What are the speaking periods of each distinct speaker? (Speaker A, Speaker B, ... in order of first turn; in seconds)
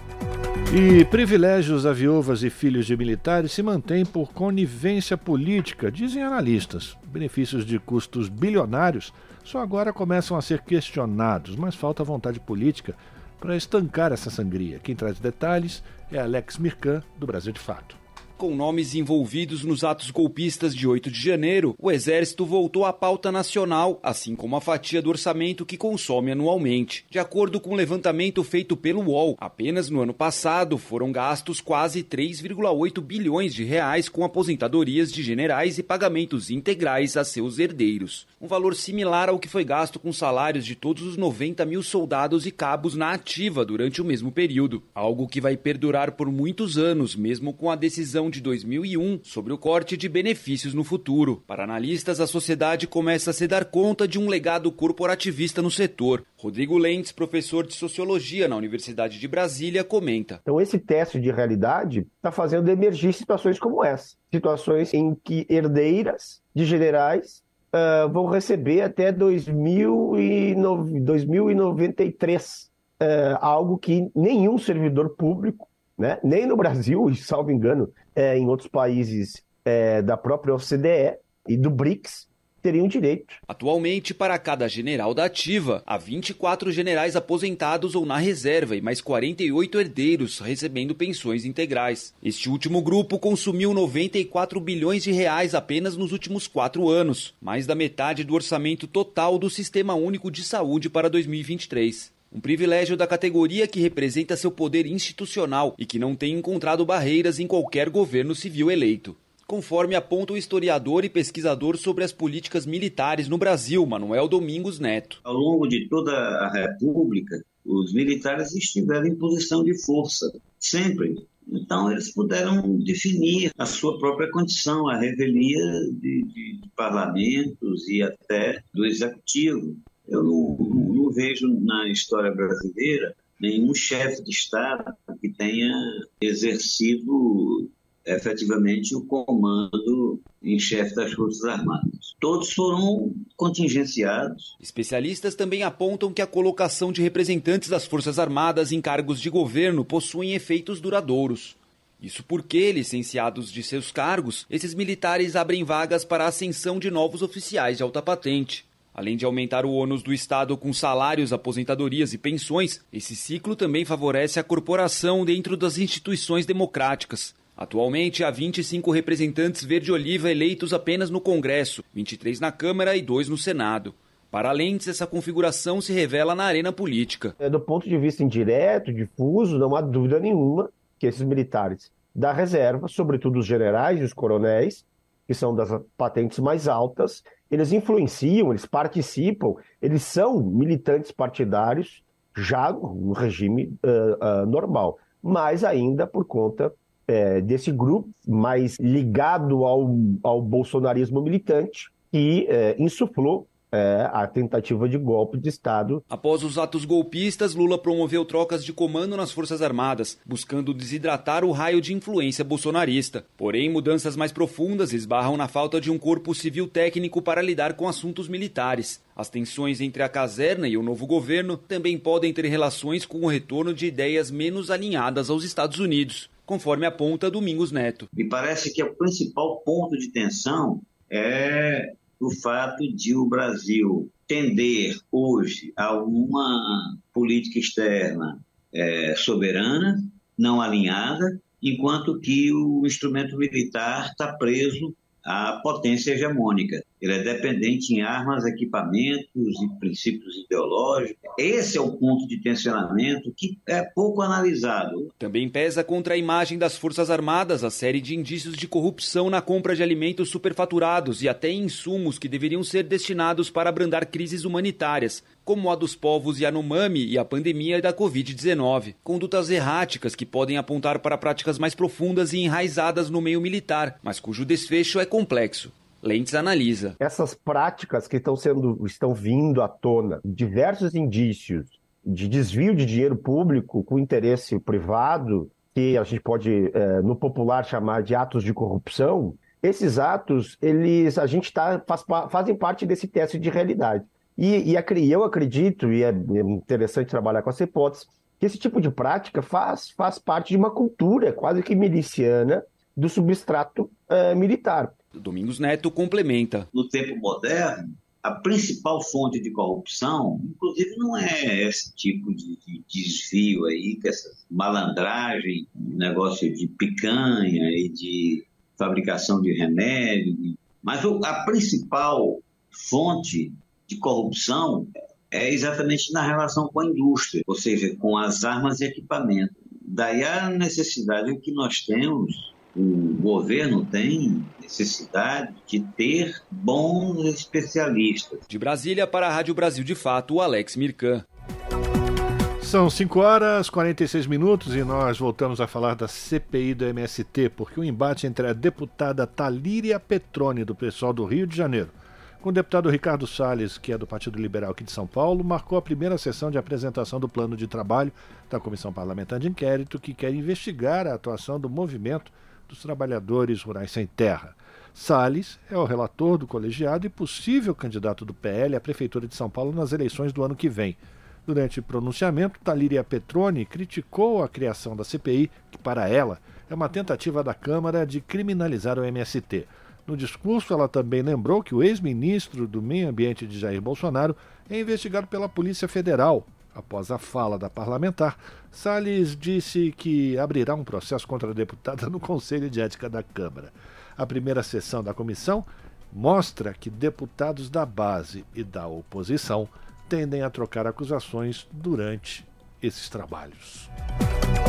Speaker A: 0.7-18.0, 342.6-403.9
Speaker B: 18.4-60.4, 83.5-115.2, 144.6-177.3, 206.1-228.1, 255.2-277.0, 305.2-306.7, 338.5-341.2
Speaker C: 60.5-83.4, 177.4-206.0, 277.0-304.9
Speaker D: 115.2-144.5, 228.2-255.1, 306.7-338.4